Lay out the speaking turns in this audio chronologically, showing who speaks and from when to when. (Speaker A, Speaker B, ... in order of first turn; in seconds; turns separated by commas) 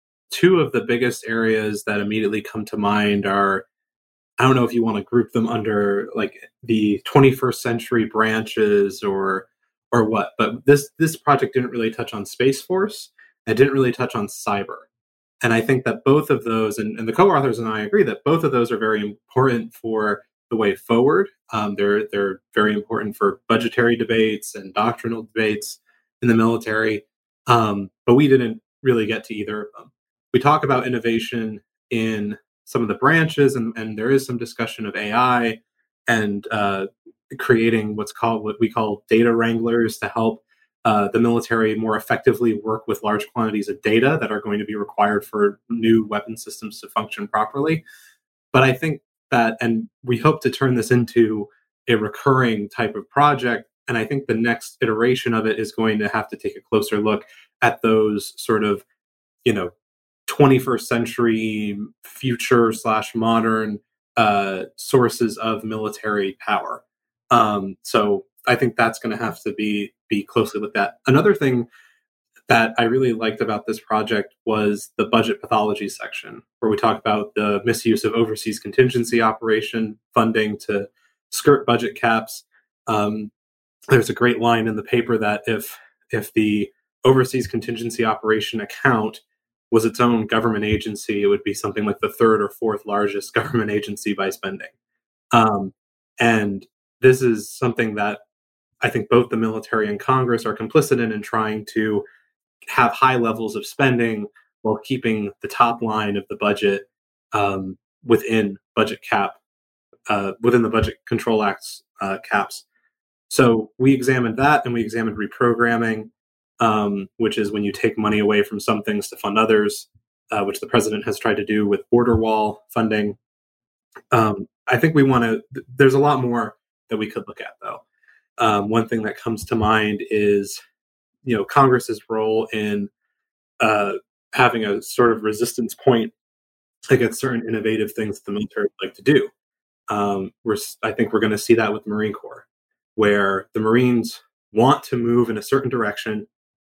Speaker A: 0.3-3.6, Speaker A: 4.4-14.8, Speaker A: 15.4-47.8, Speaker A: 48.5-58.8, Speaker A: 59.4-59.7, Speaker A: 60.3-71.7, Speaker A: 72.5-83.3, Speaker A: 83.9-94.7, Speaker A: 95.3-98.2, Speaker A: 98.8-102.0, Speaker A: 102.7-109.4, Speaker A: 110.1-112.6, Speaker A: 113.3-123.2, Speaker A: 124.1-127.8, Speaker A: 128.4-130.6, Speaker A: 131.2-132.9, Speaker A: 133.6-136.1, Speaker A: 136.9-139.3, Speaker A: 139.9-142.4, Speaker A: 142.9-146.3